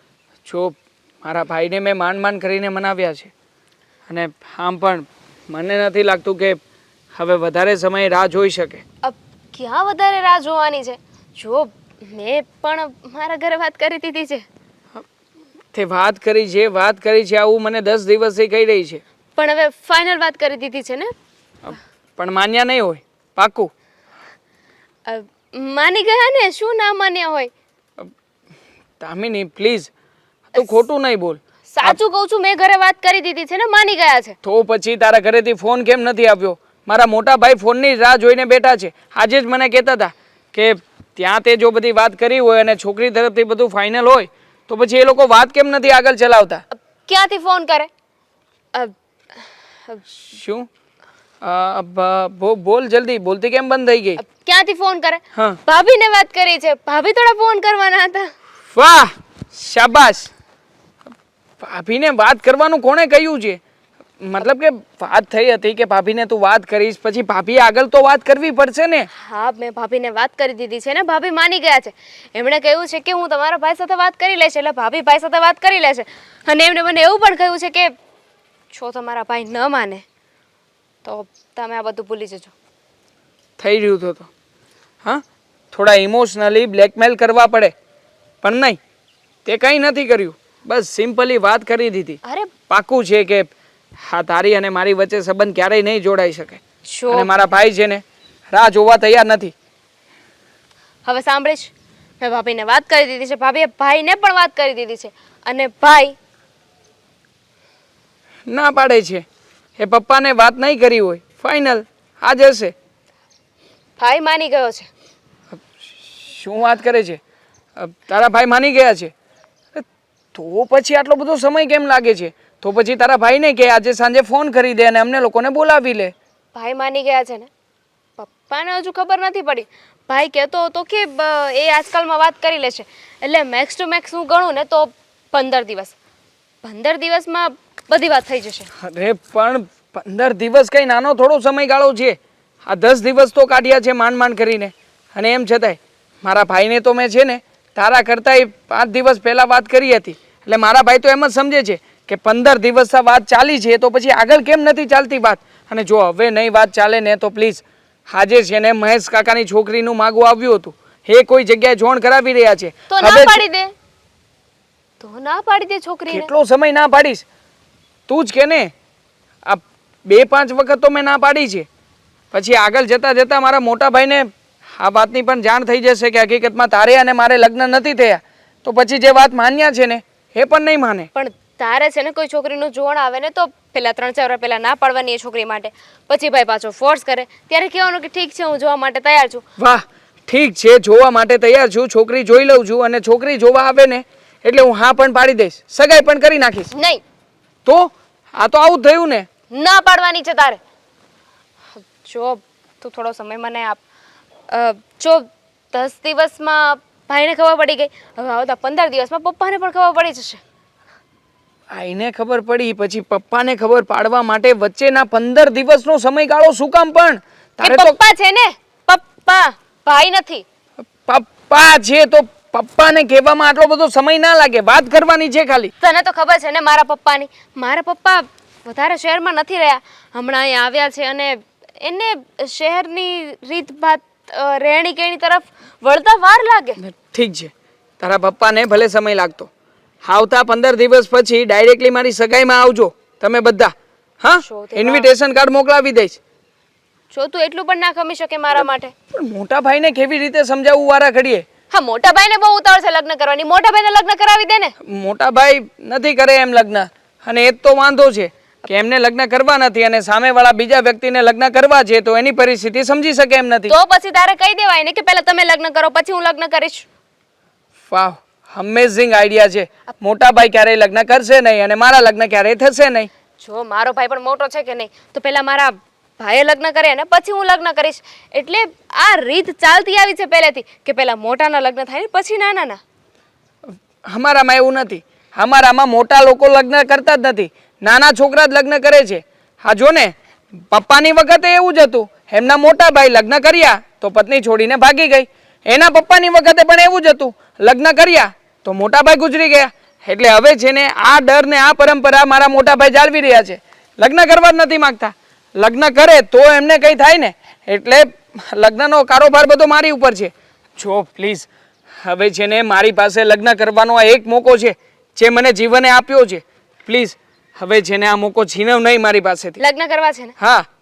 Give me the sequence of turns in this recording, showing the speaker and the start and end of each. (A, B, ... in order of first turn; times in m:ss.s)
0:00.4-0:03.3 A
0:04.1-0:06.6 A
0:07.1-0:08.8 A
0:09.0-0:14.4 B
0:15.7-0:19.0 A
0:19.4-0:21.1 B
0:21.6-0:23.7 A
0:25.1-0:27.5 B
0:29.0-0:29.9 A
0:30.5-0:32.0 A
0:31.7-0:34.4 B
0:34.4-0:46.6 A
0:46.7-0:47.9 B
0:48.7-0:50.0 B
0:50.1-0:50.7 A
0:51.4-0:54.2 A
0:54.2-0:58.3 B
0:55.4-0:55.6 A
0:58.7-1:00.3 A
1:01.6-1:03.6 A
1:04.2-1:09.1 A
1:09.1-1:17.9 B
1:18.7-1:20.0 B
1:21.0-1:22.5 B
1:23.6-1:24.3 A
1:25.0-1:27.7 A
1:28.4-1:28.8 A
1:29.5-1:39.5 A
1:32.2-1:32.5 B
1:36.9-1:37.3 B
1:41.0-1:46.2 B
1:48.5-1:49.2 A
1:49.8-1:52.7 A
1:54.0-1:54.9 B
1:55.5-1:57.2 A
1:57.8-1:59.1 A
1:59.8-2:06.1 A
2:06.6-2:07.5 B
2:08.2-2:16.0 B
2:16.6-2:18.7 B
2:18.8-2:43.4 A
2:42.9-2:43.7 B
2:45.0-2:46.3 B
2:46.1-2:47.2 A
2:48.1-2:48.7 A
2:49.5-2:51.7 A
2:52.3-3:01.1 A
3:01.1-3:09.4 B
3:09.6-3:16.7 A
3:16.7-3:17.0 B
3:17.6-3:19.3 A
3:19.5-3:20.6 B
3:21.8-3:23.8 B
3:24.5-3:30.4 B
3:31.7-3:38.0 A
3:37.6-3:40.4 B
3:41.0-3:45.7 A
3:45.8-3:56.8 B
3:56.8-3:59.5 A
4:00.0-4:06.2 A
4:04.4-4:05.1 B
4:07.1-4:08.9 B
4:09.1-4:11.5 A
4:11.7-4:14.7 B
4:14.8-4:23.7 A
4:23.7-4:26.9 B
4:27.9-4:33.1 A
4:33.4-4:42.8 B
4:44.0-4:50.1 A
4:50.7-5:11.5 A
5:12.0-5:19.6 A
5:19.6-5:20.4 B
5:20.4-5:20.7 A